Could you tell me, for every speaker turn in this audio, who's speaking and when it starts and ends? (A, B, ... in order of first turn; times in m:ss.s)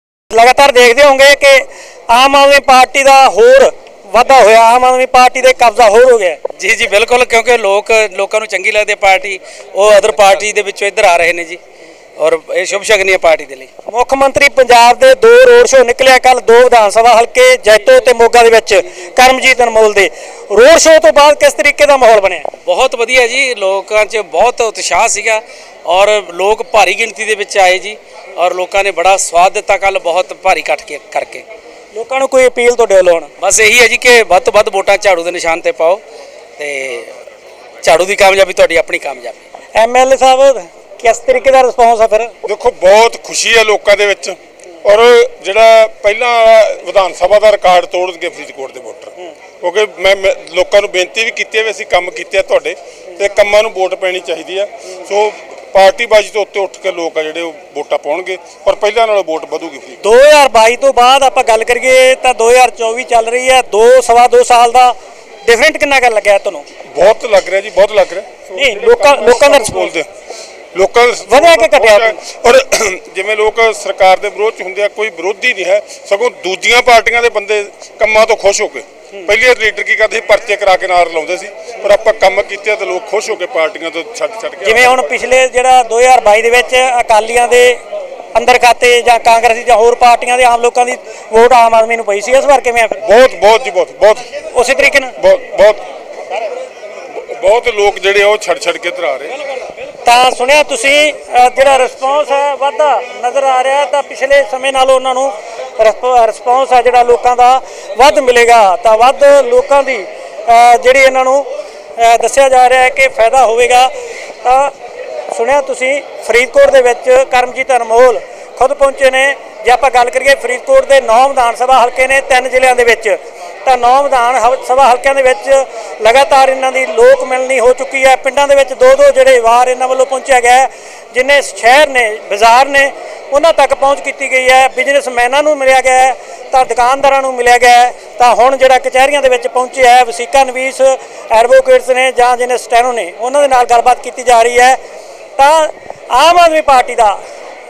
0:00.3-0:06.4 A
0:06.6-0:11.6 B
0:12.2-0:13.7 B
0:13.9-0:22.5 A
0:22.7-0:31.4 B
0:31.9-0:33.3 A
0:33.4-0:36.0 B
0:36.6-0:37.1 B
0:37.8-0:39.4 B
0:39.8-0:42.3 A
0:42.5-1:00.0 C
1:00.0-1:06.6 A
1:06.9-1:10.1 C
1:08.6-1:10.0 A
1:10.8-1:25.1 C
1:11.3-1:12.2 A
1:24.6-1:27.8 A
1:28.3-1:33.0 A
1:33.0-1:34.3 C
1:34.5-1:35.2 A
1:35.2-1:35.8 C
1:37.2-1:39.4 C
1:40.0-1:53.9 A
1:54.4-1:54.7 A
1:55.3-2:24.8 A
2:25.4-2:27.2 A